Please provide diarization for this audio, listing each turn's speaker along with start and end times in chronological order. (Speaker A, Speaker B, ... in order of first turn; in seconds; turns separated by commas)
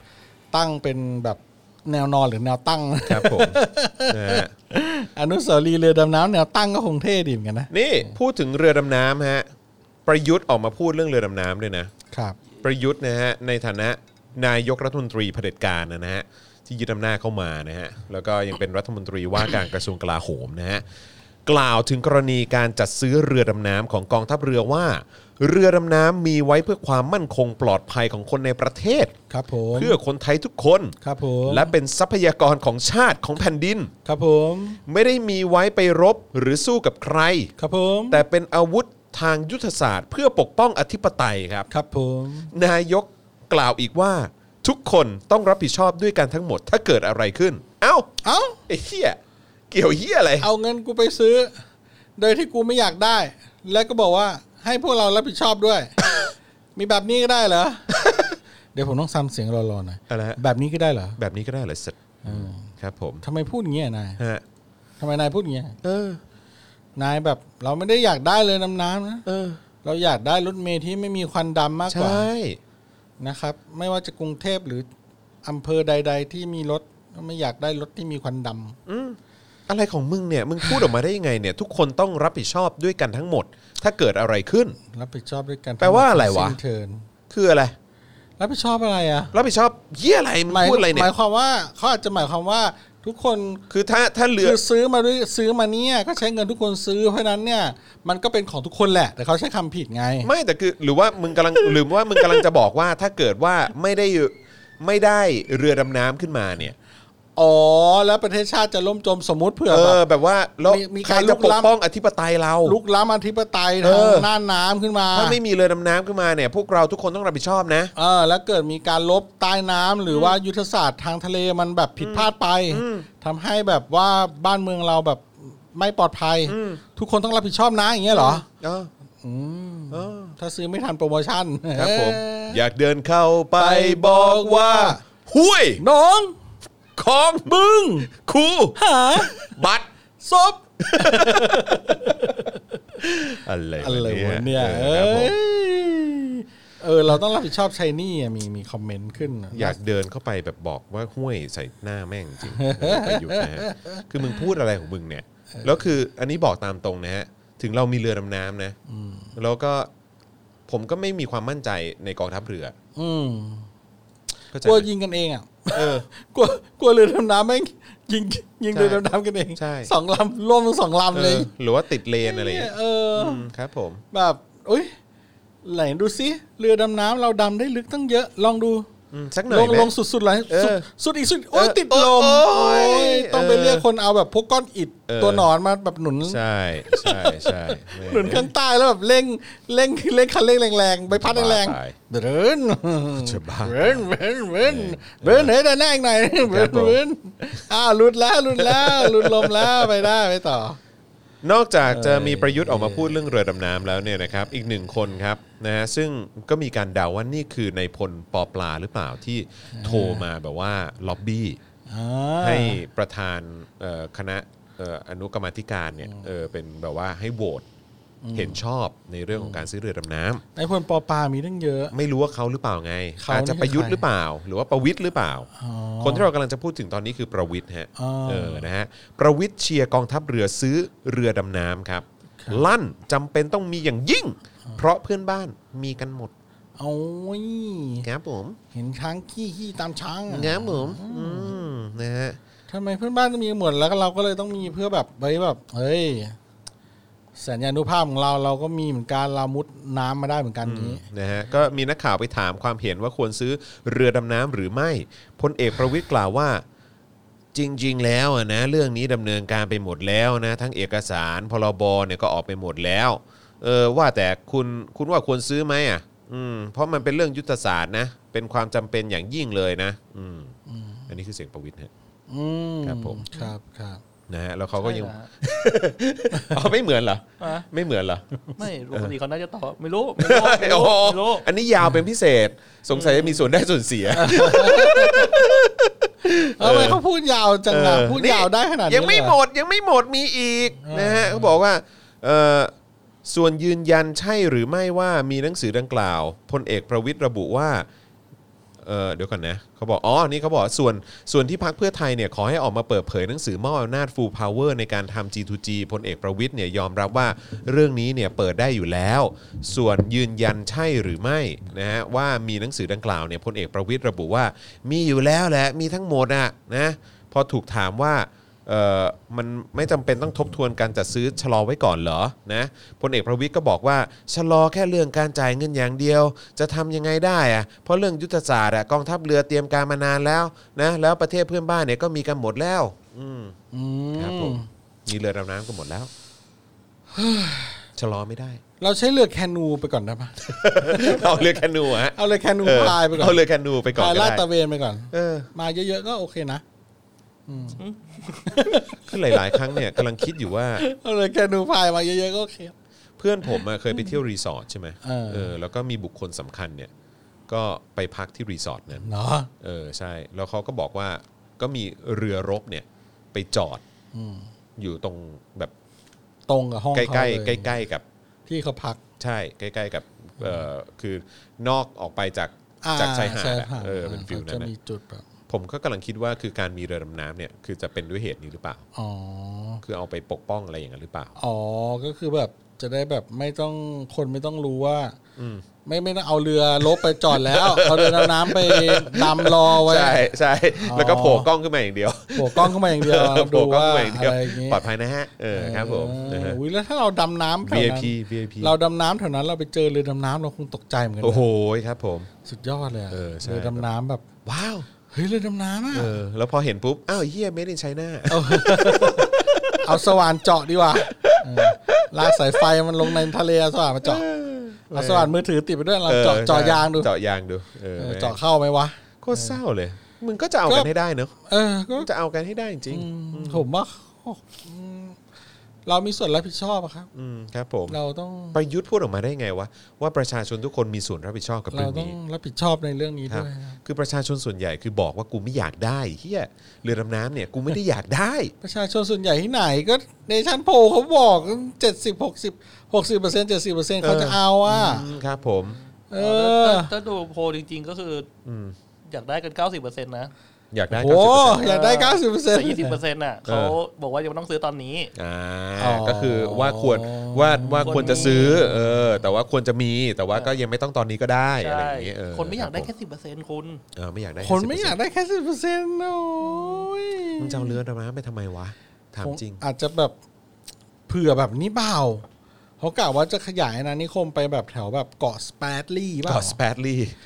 Speaker A: 0.5-7.7, Speaker B: 3.0-4.5, Speaker B: 7.7-9.5, Speaker B: 10.1-11.9, Speaker A: 12.1-12.4, Speaker B: 12.6-20.8, Speaker B: 21.4-29.1, Speaker A: 29.3-30.0, Speaker B: 29.7-33.9, Speaker A: 31.0-31.7, Speaker A: 34.0-34.8, Speaker B: 34.9-37.5, Speaker A: 37.6-38.2, Speaker B: 38.1-41.7, Speaker A: 41.7-42.5, Speaker B: 42.5-48.1, Speaker A: 48.2-48.6, Speaker B: 48.7-49.2, Speaker B: 49.7-50.5, Speaker A: 50.4-51.5, Speaker A: 52.2-56.0, Speaker A: 56.8-57.9, Speaker A: 58.7-61.2, Speaker B: 60.1-60.4, Speaker B: 61.2-63.2, Speaker A: 62.2-62.7, Speaker A: 63.2-64.2, Speaker B: 64.2-64.4, Speaker A: 65.0-65.8, Speaker B: 65.8-66.2, Speaker A: 67.0-69.2, Speaker B: 69.2-69.6, Speaker A: 69.8-72.3, Speaker B: 71.9-72.6, Speaker A: 73.2-74.9, Speaker A: 75.4-78.8, Speaker B: 78.8-84.8, Speaker A: 84.9-87.0, Speaker B: 85.8-86.6, Speaker B: 87.3-87.8, Speaker A: 88.4-89.3, Speaker B: 89.3-91.1, Speaker A: 90.5-93.6, Speaker B: 93.7-94.6, Speaker A: 94.4-100.3, Speaker B: 100.2-106.7, Speaker A: 107.3-110.0, Speaker B: 109.7-112.8, Speaker A: 110.6-111.7, Speaker A: 112.6-115.4, Speaker B: 113.8-114.3, Speaker B: 115.1-117.9, Speaker A: 118.0-128.4, Speaker B: 120.1-120.3, Speaker B: 122.0-123.1, Speaker B: 126.5-126.8, Speaker B: 128.1-128.9, Speaker A: 129.2-132.6, Speaker B: 129.9-130.3, Speaker B: 131.8-135.8, Speaker A: 133.6-135.0, Speaker A: 135.8-136.3, Speaker B: 136.9-137.5, Speaker A: 137.5-138.1, Speaker B: 138.1-139.9, Speaker A: 138.8-139.5, Speaker A: 140.2-142.6, Speaker B: 140.8-142.3, Speaker B: 143.0-145.4, Speaker A: 143.8-149.8, Speaker B: 149.5-158.7, Speaker A: 152.5-154.4, Speaker A: 158.9-159.3, Speaker B: 159.3-159.9, Speaker B: 160.7-162.7, Speaker A: 162.9-163.7, Speaker B: 164.5-164.9, Speaker A: 164.6-171.5, Speaker B: 165.7-166.0, Speaker B: 168.7-169.0, Speaker B: 169.6-169.9, Speaker B: 171.1-174.0, Speaker A: 172.2-173.5, Speaker A: 174.1-174.9, Speaker A: 175.6-178.9, Speaker B: 179.1-179.9, Speaker A: 179.5-186.4, Speaker B: 180.5-180.8, Speaker B: 181.5-183.8, Speaker B: 185.1-185.5, Speaker B: 186.3-188.5, Speaker A: 186.9-200.8, Speaker B: 191.1-191.9, Speaker B: 193.1-194.0, Speaker B: 194.6-195.5, Speaker B: 196.4-197.0, Speaker B: 198.6-199.9, Speaker B: 201.4-211.6, Speaker A: 201.9-203.1, Speaker A: 209.7-210.2, Speaker A: 211.9-212.8, Speaker B: 212.4-217.6, Speaker A: 218.2-218.6, Speaker B: 218.3-220.4, Speaker A: 219.3-219.6, Speaker A: 220.5-221.9, Speaker B: 221.9-225.5, Speaker A: 223.2-224.0, Speaker A: 225.6-226.3, Speaker B: 226.0-236.3, Speaker A: 227.9-228.7, Speaker A: 232.4-232.7, Speaker A: 236.8-238.1, Speaker B: 238.0-238.6, Speaker A: 238.7-241.5, Speaker B: 240.3-242.4, Speaker A: 242.7-246.4, Speaker A: 247.4-251.0, Speaker B: 250.6-256.6, Speaker B: 257.5-270.5, Speaker A: 270.7-271.1, Speaker B: 271.1-271.9, Speaker A: 272.3-274.0, Speaker B: 272.8-273.2, Speaker B: 274.3-278.2, Speaker C: 274.8-275.3, Speaker C: 277.4-277.7, Speaker C: 278.6-281.4, Speaker B: 280.2-287.0, Speaker C: 283.0-283.4, Speaker A: 284.1-285.6, Speaker A: 286.3-289.4, Speaker B: 287.7-292.7, Speaker A: 290.8-291.5, Speaker B: 293.2-297.9, Speaker B: 298.8-333.6, Speaker A: 333.7-334.7, Speaker B: 334.1-336.1, Speaker A: 337.1-337.8, Speaker B: 337.9-338.6, Speaker A: 338.8-341.6, Speaker B: 340.5-344.4, Speaker A: 342.1-343.4, Speaker A: 343.9-346.6, Speaker B: 345.1-345.5, Speaker A: 347.5-347.8, Speaker C: 347.8-348.4, Speaker A: 348.4-349.9, Speaker B: 348.9-350.8, Speaker A: 350.8-352.7, Speaker B: 353.2-356.9, Speaker A: 355.0-355.5, Speaker B: 357.5-359.1, Speaker A: 359.0-359.5, Speaker B: 359.6-363.8, Speaker A: 364.1-364.5, Speaker B: 364.8-365.7, Speaker A: 366.5-367.8, Speaker B: 366.9-368.0, Speaker A: 368.5-369.0, Speaker B: 369.2-374.7, Speaker A: 372.8-375.2, Speaker B: 375.5-378.8, Speaker A: 378.9-379.8, Speaker B: 379.8-381.3, Speaker A: 381.4-385.2, Speaker B: 385.4-385.6, Speaker A: 385.8-391.5, Speaker B: 386.9-396.6, Speaker A: 392.3-394.8, Speaker A: 395.5-401.4, Speaker B: 397.6-398.8, Speaker B: 401.2-402.3, Speaker A: 402.4-404.2, Speaker B: 403.1-403.9, Speaker B: 404.4-404.9, Speaker A: 405.1-406.2, Speaker B: 405.9-410.1, Speaker A: 408.3-414.2, Speaker B: 411.2-412.5, Speaker B: 414.0-415.3, Speaker A: 414.9-417.1, Speaker B: 416.1-418.4, Speaker A: 418.0-419.6, Speaker B: 419.2-421.3, Speaker A: 421.5-422.1, Speaker B: 422.0-423.6, Speaker A: 422.9-425.2, Speaker A: 425.9-427.1, Speaker B: 427.1-428.0, Speaker A: 427.9-428.6, Speaker B: 428.5-432.1, Speaker A: 431.7-433.8, Speaker B: 433.3-438.5, Speaker A: 438.6-445.1, Speaker B: 444.0-445.8, Speaker A: 446.1-446.9, Speaker C: 446.1-448.3, Speaker B: 448.4-448.7, Speaker C: 449.1-450.3, Speaker B: 450.7-451.6, Speaker A: 450.9-453.0, Speaker C: 451.6-455.1, Speaker B: 453.4-453.8, Speaker B: 455.1-462.9, Speaker A: 455.8-459.0, Speaker C: 457.9-458.6, Speaker C: 461.6-463.8, Speaker B: 463.9-465.0, Speaker A: 464.4-467.8, Speaker B: 467.4-469.6, Speaker A: 469.2-470.1, Speaker A: 471.1-472.2, Speaker A: 472.8-476.6, Speaker B: 476.2-477.1